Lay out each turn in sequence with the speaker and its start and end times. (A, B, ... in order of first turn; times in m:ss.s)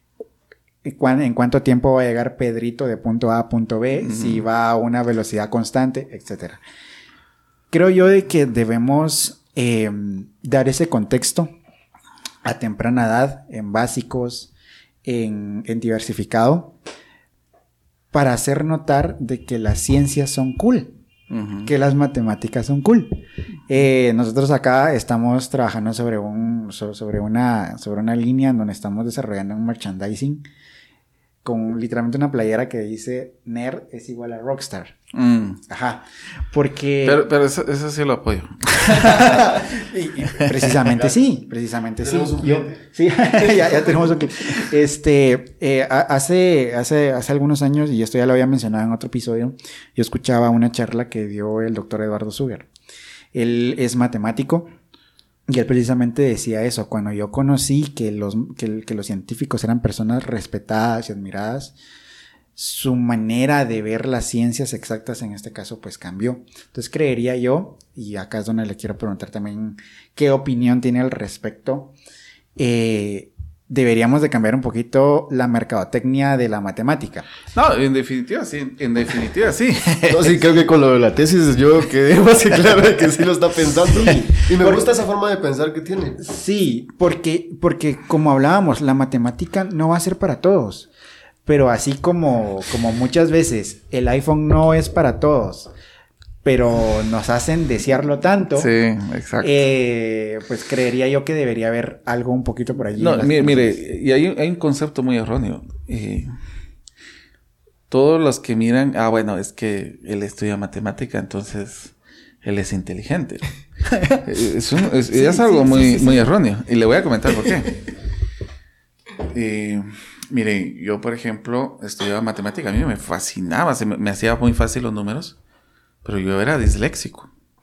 0:00.8-0:06.6 A
0:04.0-0:04.4 B
0:07.7-0:11.5 A
0:12.4-0:14.5 A
0:15.0-0:16.8 A
0:18.1-0:21.0 A
0:21.3-0:21.7 B
0:21.6-0:30.4 A
0:31.4-0:35.0 A
0:35.1-0:35.6 B
0:35.7-0:37.2 A
0:37.0-0:39.6 B
0:38.8-0:52.7 A
0:40.8-0:41.1 C
0:42.0-0:42.8 C
0:43.4-0:44.2 C
0:53.3-0:54.7 A
0:55.5-1:01.8 A
1:02.6-1:11.9 A
1:12.6-1:17.3 A
1:17.5-1:20.4 B
1:20.1-1:26.2 C
1:23.9-1:24.8 A
1:26.2-1:30.9 A
1:31.5-1:35.7 A
1:36.4-1:38.7 A
1:38.6-1:39.6 B
1:39.4-1:43.8 A
1:43.0-1:46.4 B
1:47.9-1:53.5 B
1:54.1-1:57.8 B
1:55.1-1:56.3 A
1:59.3-2:05.4 B
2:06.0-2:07.3 B